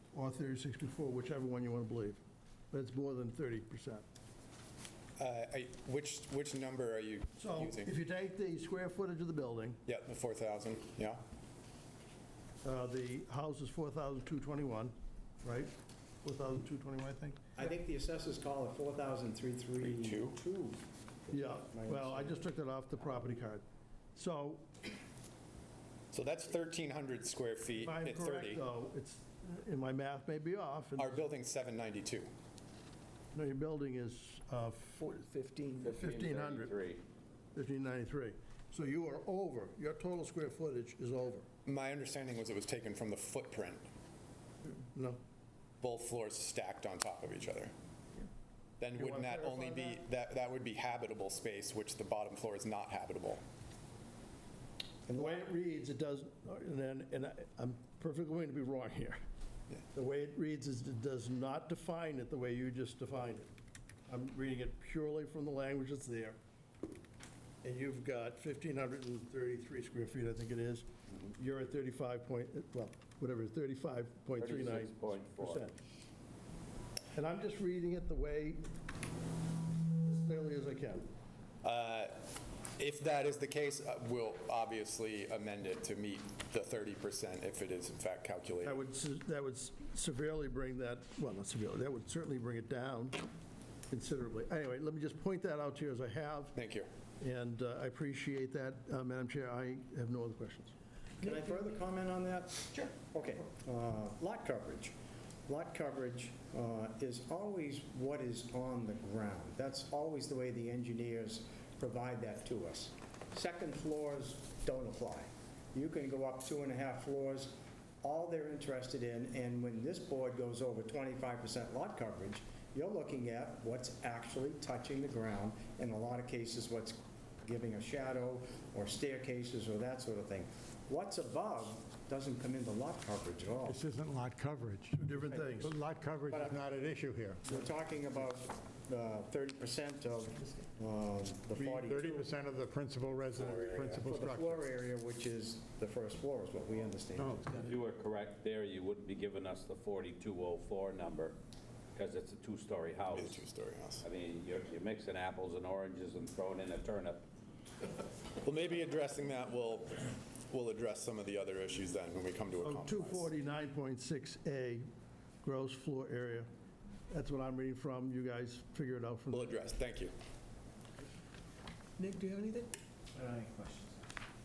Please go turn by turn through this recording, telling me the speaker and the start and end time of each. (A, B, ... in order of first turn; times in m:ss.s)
0:00.1-0:04.0 A
0:05.2-0:07.9 B
0:07.4-0:09.8 A
0:09.9-0:11.2 B
0:12.6-0:17.4 A
0:17.6-0:22.4 C
0:19.8-0:20.4 B
0:21.3-0:23.6 A
0:24.1-0:24.7 A
0:26.1-0:28.6 B
0:27.8-0:31.2 A
0:31.0-0:32.3 B
0:33.3-0:35.0 A
0:35.0-0:35.9 D
0:35.8-0:37.0 E
0:35.9-0:36.7 A
0:37.6-0:41.4 A
0:41.6-0:43.9 B
0:44.7-0:45.2 A
0:45.8-0:47.7 B
0:48.8-0:53.4 B
0:49.0-0:50.0 A
0:55.1-0:59.2 A
0:59.9-1:03.5 A
1:04.1-1:06.4 A
1:07.6-1:15.7 A
1:14.4-1:15.6 E
1:17.1-1:18.6 A
1:19.9-1:21.1 A
1:21.6-1:22.2 B
1:22.8-1:28.8 B
1:28.6-1:33.2 A
1:33.9-1:36.5 A
1:36.5-1:36.9 B
1:37.2-1:40.7 A
1:41.2-1:44.9 C
1:41.2-1:41.8 D
1:45.5-2:13.8 C
2:13.7-2:17.5 F
2:15.0-2:15.8 A
2:15.2-2:15.7 C
2:16.3-2:16.6 C
2:17.5-2:22.3 C
2:21.6-2:24.7 F
2:23.4-2:23.9 E
2:23.5-2:27.6 C
2:27.2-2:27.5 F
2:27.5-2:31.4 E
2:32.0-2:33.4 E
2:33.1-2:34.0 B
2:34.0-2:37.2 E
2:38.4-2:43.3 B
2:42.6-2:44.9 A
2:45.4-2:46.5 A
2:47.1-2:49.6 A
2:49.3-2:50.1 B
2:52.0-2:53.9 D